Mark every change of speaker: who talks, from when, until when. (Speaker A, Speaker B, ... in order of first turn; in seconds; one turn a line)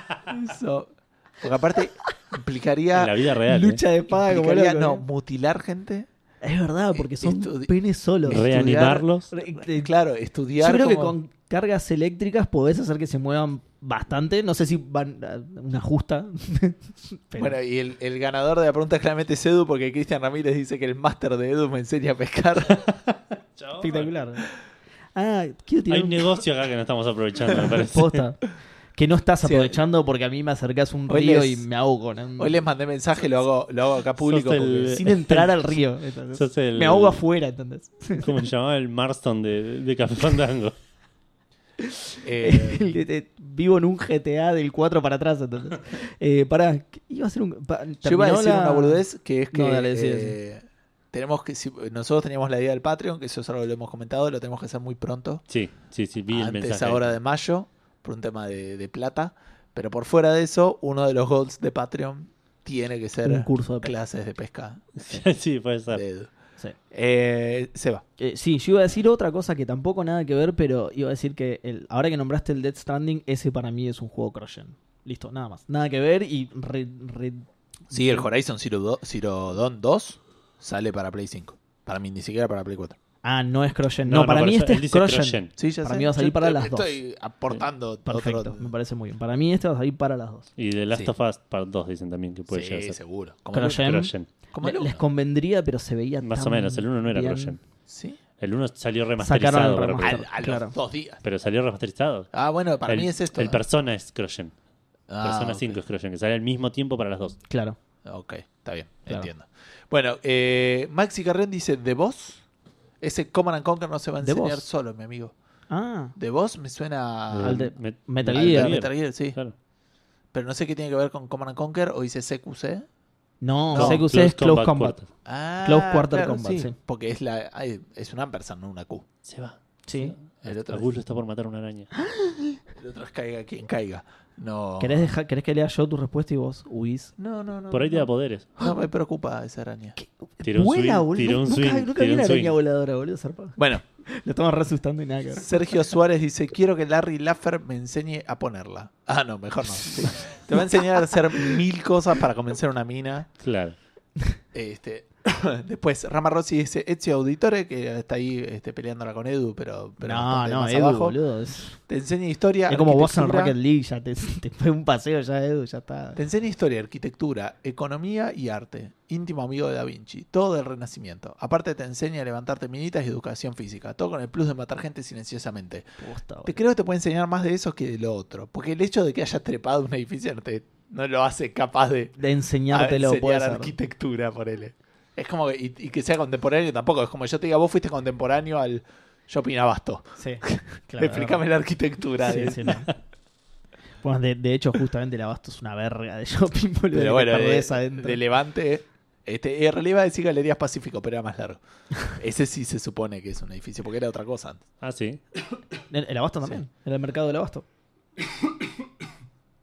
Speaker A: 0.2-3.2
Speaker B: 2.9-3.8
Speaker C: 3.5-5.0
Speaker A: 4.1-6.1
Speaker C: 6.4-8.8
Speaker A: 6.9-7.7
Speaker A: 8.2-11.2
Speaker B: 8.3-9.3
Speaker C: 9.3-9.9
Speaker C: 10.6-17.6
Speaker A: 17.4-22.9
Speaker B: 23.6-24.0
Speaker C: 23.8-24.4
Speaker C: 25.1-26.4
Speaker B: 25.9-28.2
Speaker C: 27.8-28.4
Speaker C: 28.9-32.5
Speaker A: 29.4-29.8
Speaker A: 31.1-31.6
Speaker A: 32.4-35.0
Speaker B: 34.2-35.7
Speaker C: 34.9-38.3
Speaker B: 36.3-37.2
Speaker B: 38.1-40.7
Speaker C: 41.9-50.4
Speaker A: 42.2-42.9
Speaker A: 48.0-55.4
Speaker B: 55.5-57.1
Speaker A: 56.3-65.2
Speaker C: 63.2-63.9
Speaker B: 65.0-66.0
Speaker A: 65.9-66.3
Speaker A: 66.9-68.0
Speaker C: 68.2-78.2
Speaker A: 77.9-83.0
Speaker C: 83.2-87.0
Speaker B: 84.1-85.5
Speaker A: 85.6-88.7
Speaker C: 88.0-90.5
Speaker B: 90.6-93.0
Speaker A: 92.5-93.9
Speaker C: 93.5-97.5
Speaker B: 93.6-94.3
Speaker A: 94.5-95.0
Speaker B: 96.2-97.6
Speaker A: 97.9-98.2
Speaker B: 98.4-100.2
Speaker C: 99.2-100.7
Speaker A: 100.0-101.2
Speaker B: 101.2-102.3
Speaker A: 102.3-103.6
Speaker B: 102.9-104.5
Speaker A: 105.1-105.8
Speaker B: 105.2-107.4
Speaker C: 107.5-107.8
Speaker A: 108.0-112.4
Speaker A: 113.0-115.3
Speaker C: 114.2-114.6
Speaker C: 115.7-116.1
Speaker A: 116.2-117.7
Speaker B: 117.3-119.5
Speaker C: 117.4-118.8
Speaker A: 118.3-119.4
Speaker A: 120.3-122.8
Speaker C: 123.4-125.0
Speaker A: 123.7-124.0
Speaker B: 123.7-125.1
Speaker A: 125.2-129.0
Speaker C: 125.6-126.7
Speaker B: 129.2-131.9
Speaker C: 129.9-130.1
Speaker A: 130.4-130.9
Speaker C: 131.9-132.6
Speaker A: 132.8-135.1
Speaker C: 134.8-137.1
Speaker A: 137.2-140.0
Speaker B: 137.7-138.5
Speaker C: 140.0-145.5
Speaker B: 140.4-142.6
Speaker A: 143.6-143.8
Speaker A: 145.3-153.3
Speaker B: 153.4-153.7
Speaker A: 154.5-161.2
Speaker C: 160.0-161.8
Speaker A: 161.9-163.6
Speaker C: 162.7-166.2
Speaker A: 166.1-175.9
Speaker C: 176.0-176.5
Speaker A: 176.4-182.1
Speaker C: 182.2-183.7
Speaker A: 182.7-192.8
Speaker C: 190.2-191.4
Speaker C: 192.2-192.9
Speaker C: 194.0-198.2
Speaker A: 196.9-204.6
Speaker B: 204.8-205.2
Speaker C: 205.9-207.7